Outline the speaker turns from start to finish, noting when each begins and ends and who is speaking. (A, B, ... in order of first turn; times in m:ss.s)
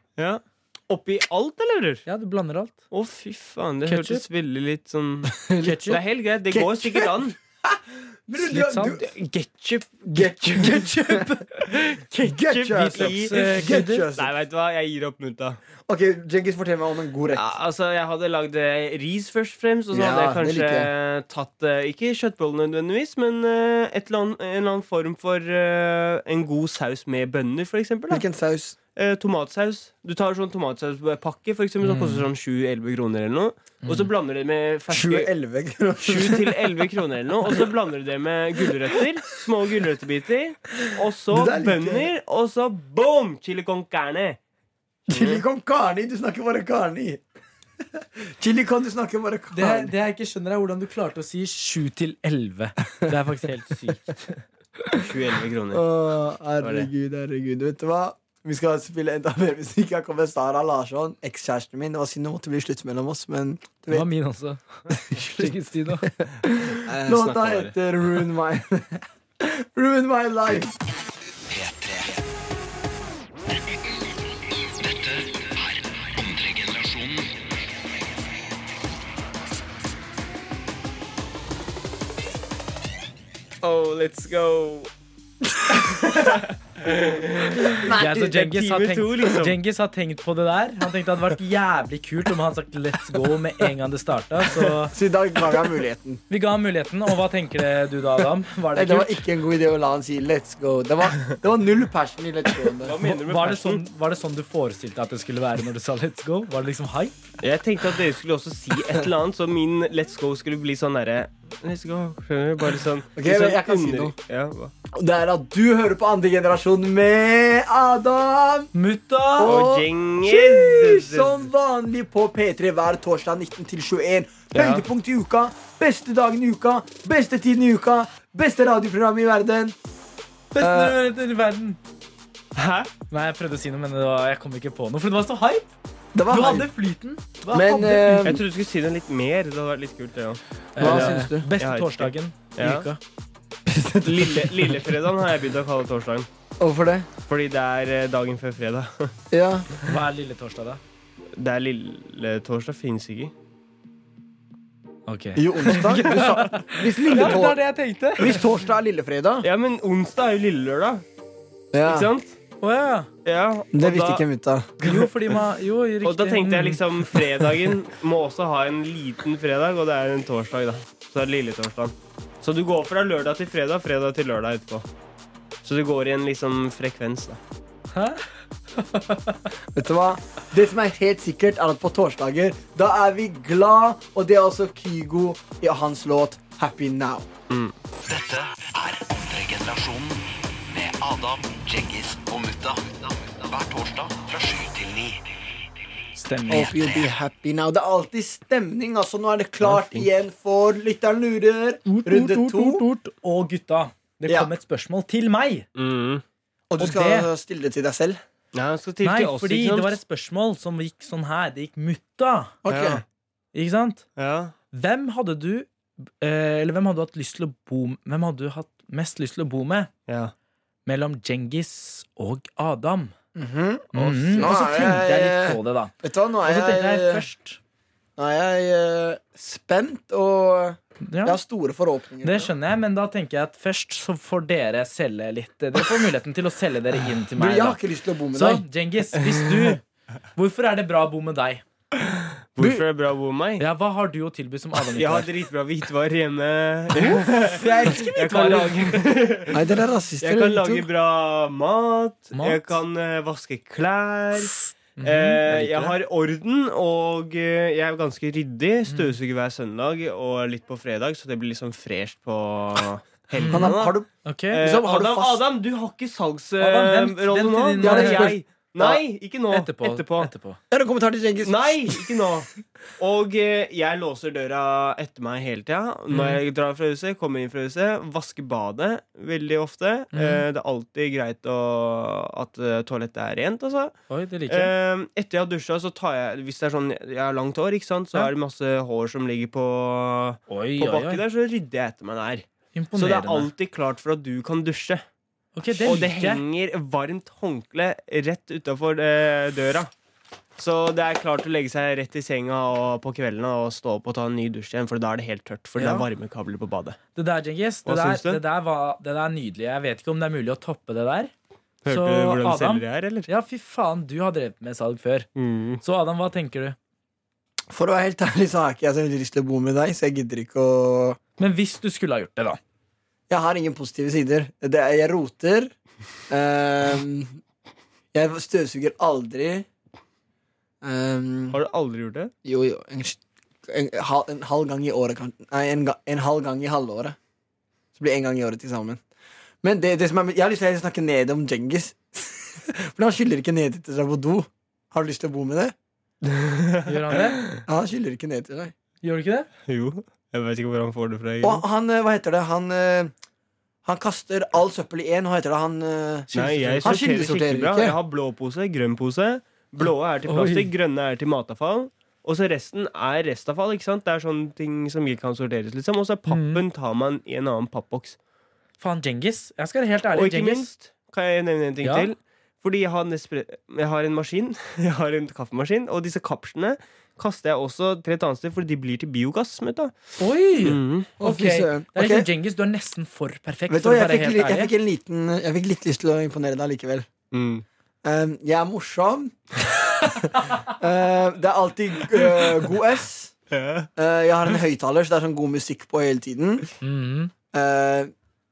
0:00.2-0:02.0 A
0:02.1-0:02.8 B
0:02.9-0:07.4 A
0:03.9-0:04.2 B
0:05.3-0:05.9 C
0:05.6-0:06.0 B
0:06.5-0:09.1 C
0:08.4-0:09.0 B
0:09.0-0:10.9 A
0:10.1-0:11.5 C
0:10.9-0:11.4 B
0:11.7-0:15.6 A
0:12.2-0:14.3 C
0:12.7-0:14.1 B
0:15.9-0:17.4 C
0:17.3-0:28.2 A
0:19.9-0:20.9 C
0:28.1-0:28.8 C
0:29.0-0:35.3 A
0:31.8-0:32.2 B
0:33.8-0:34.1 B
0:34.9-0:36.9 C
0:36.0-0:44.4 A
0:41.3-0:42.1 C
0:45.1-0:45.4 A
0:45.1-0:47.2 C
0:47.9-0:49.9 C
0:49.5-0:54.4 B
0:55.0-0:55.8 A
0:55.7-1:04.0 C
1:03.9-1:06.1 B
1:04.9-1:10.7 C
1:06.8-1:07.7 A
1:11.5-1:12.2 D
1:14.8-1:17.3 D
1:23.6-1:24.9 A
1:25.7-1:29.6 A
1:27.9-1:34.9 B
1:34.7-1:36.2 C
1:36.3-1:39.2 B
1:38.7-1:43.0 C
1:42.8-1:43.8 A
1:43.0-1:47.2 B
1:47.4-1:54.7 A
1:53.2-1:54.1 C
1:54.9-1:58.7 C
1:58.7-1:59.6 B
1:59.4-2:09.7 C
1:59.4-2:01.4 A
2:04.5-2:04.9 A
2:10.5-2:11.8 B
2:10.6-2:11.0 C
2:12.5-2:12.9 A
2:13.1-2:15.7 B
2:16.1-2:16.7 C
2:16.3-2:18.4 B
2:17.5-2:18.4 C
2:18.2-2:22.9 A
2:20.7-2:23.0 B
2:20.8-2:21.5 C
2:23.6-2:24.8 C
2:24.0-2:26.3 A
2:26.6-2:27.1 C
2:27.3-2:29.1 A
2:29.3-2:29.7 C
2:29.8-2:30.8 B
2:31.4-2:33.3 A
2:35.1-2:38.4 B
2:35.4-2:37.6 C
2:38.2-2:39.5 C
2:39.4-2:41.0 A
2:41.7-2:42.1 C
2:41.8-2:42.4 A
2:42.6-2:43.1 B
2:43.2-2:44.2 A
2:43.7-2:44.9 C
2:44.8-2:47.5 B
2:46.0-2:54.9 A
2:55.6-2:57.4 A
2:57.9-2:59.5 B
2:59.7-3:07.3 C
3:07.5-3:07.7 A
3:08.1-3:15.2 D
3:16.1-3:16.8 B
3:16.5-3:22.9 C
3:16.7-3:17.1 D
3:19.6-3:20.1 B
3:21.9-3:25.7 B
3:24.2-3:24.5 C
3:25.8-3:26.2 A
3:26.7-3:28.2 C
3:26.8-3:27.3 B
3:28.5-3:30.0 A
3:29.0-3:32.6 B
3:32.6-3:33.0 C
3:32.7-3:33.0 A
3:33.5-3:34.0 B
3:34.2-3:34.5 A
3:34.7-3:39.9 B
3:40.1-3:40.3 A
3:40.9-3:43.1 B
3:43.4-3:47.2 C
3:43.9-3:45.9 B
3:44.0-3:44.4 A
3:46.4-3:47.6 B
3:48.2-3:52.5 C
3:51.0-3:51.4 B
3:52.2-3:57.8 B
3:57.3-3:58.6 C
3:58.3-3:59.8 B
3:59.2-3:59.7 A
4:00.4-4:01.6 B
4:02.5-4:03.6 A
4:03.6-4:05.3 B
4:04.9-4:09.6 A
4:06.9-4:09.1 B
4:09.5-4:10.9 C
4:10.2-4:30.3 A
4:12.4-4:12.7 B
4:15.0-4:16.0 B
4:18.9-4:19.1 B
4:23.4-4:24.6 B
4:23.5-4:25.4 C
4:26.6-4:28.4 B
4:27.8-4:29.0 C
4:29.5-4:30.6 B
4:30.7-4:32.0 C
4:31.4-4:44.0 A
4:36.1-4:36.4 B
4:40.1-4:40.4 B
4:44.1-4:44.7 B
4:44.5-4:55.0 A
4:50.5-4:51.2 B
4:52.7-4:53.5 B
4:55.5-4:56.4 B
4:55.8-4:59.9 A
5:00.6-5:07.0 A
5:05.8-5:06.1 B
5:07.1-5:11.3 B
5:07.9-5:08.4 A
5:11.8-5:13.3 A
5:11.9-5:15.3 B
5:15.4-5:15.8 A
5:15.8-5:16.8 B
5:17.7-5:21.2 C
5:21.4-5:22.6 B
5:23.3-5:25.7 C
5:26.3-5:27.4 C
5:28.1-5:29.7 C
5:30.8-5:31.6 C
5:31.5-5:32.3 A
5:32.4-5:37.2 C
5:38.0-5:39.0 C
5:39.6-5:45.7 C
5:46.2-5:47.6 A
5:46.9-5:47.4 B
5:47.6-5:48.7 C
5:49.0-5:49.5 B
5:49.7-5:51.6 A
5:51.4-5:53.1 C
5:53.8-5:56.3 C
5:56.3-5:57.0 B
5:56.3-6:08.2 A
5:56.8-5:58.0 C
6:00.3-6:00.7 B
6:06.3-6:06.6 B
6:08.8-6:10.7 B
6:10.1-6:21.1 A
6:11.8-6:12.1 B
6:20.2-6:24.7 B
6:21.2-6:22.3 C
6:23.7-6:27.1 C
6:27.3-6:27.6 A
6:28.0-6:29.4 C
6:30.2-6:33.3 C
6:33.5-6:33.9 A
6:34.0-6:36.7 C
6:36.8-6:37.3 B
6:37.5-6:38.1 C